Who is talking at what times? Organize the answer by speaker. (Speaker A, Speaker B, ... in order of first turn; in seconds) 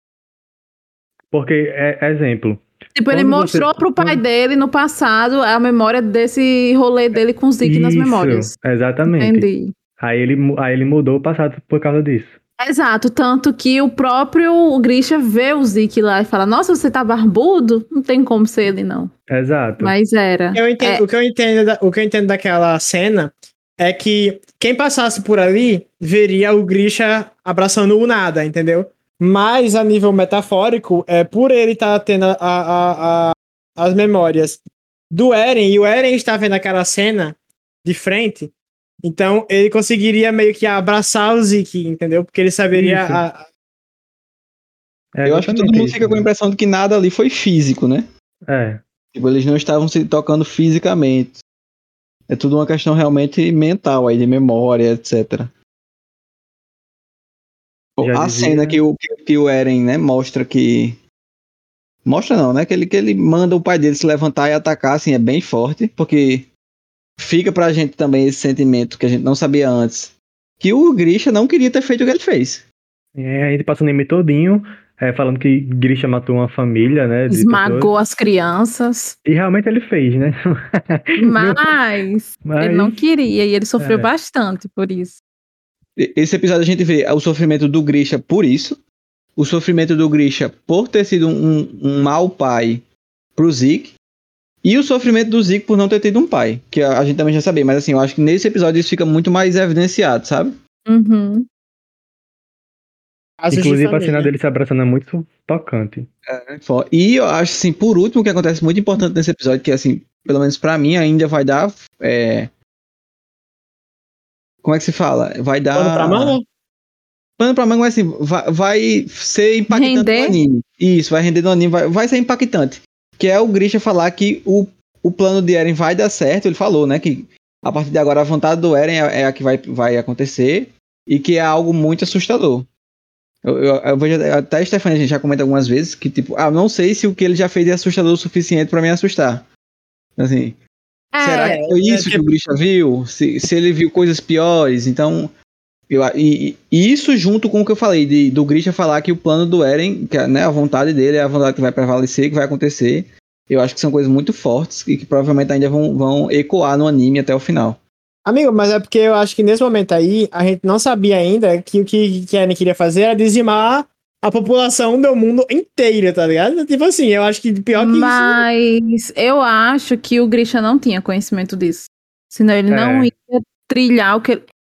Speaker A: 1.3-4.2, 7.6-9.5, 10.0-12.3, 19.3-19.9, 42.7-43.2, 45.1-46.2, 48.5-48.8, 58.0-58.8, 73.2-77.9, 79.2-81.7, 82.4-83.0, 83.8-84.1, 103.5-106.1, 172.7-173.1
Speaker B: 3.0-8.5, 9.1-9.7, 12.6-19.1, 19.8-21.0, 77.3-79.2, 81.2-85.2, 100.9-101.5, 119.7-120.4, 141.1-141.6, 167.7-174.4
Speaker C: 20.6-38.5, 39.0-43.4, 103.4-104.3, 115.7-116.4, 141.4-142.2, 158.2-168.4
Speaker D: 45.2-48.0, 49.1-51.4, 52.3-55.5, 58.0-61.0, 62.0-66.5, 67.2-72.6, 86.0-88.8, 89.4-93.9, 94.6-100.6, 106.3-112.5, 114.6-116.4, 117.4-132.7, 133.4-139.4, 140.2-140.6, 141.2-145.3, 145.9-157.8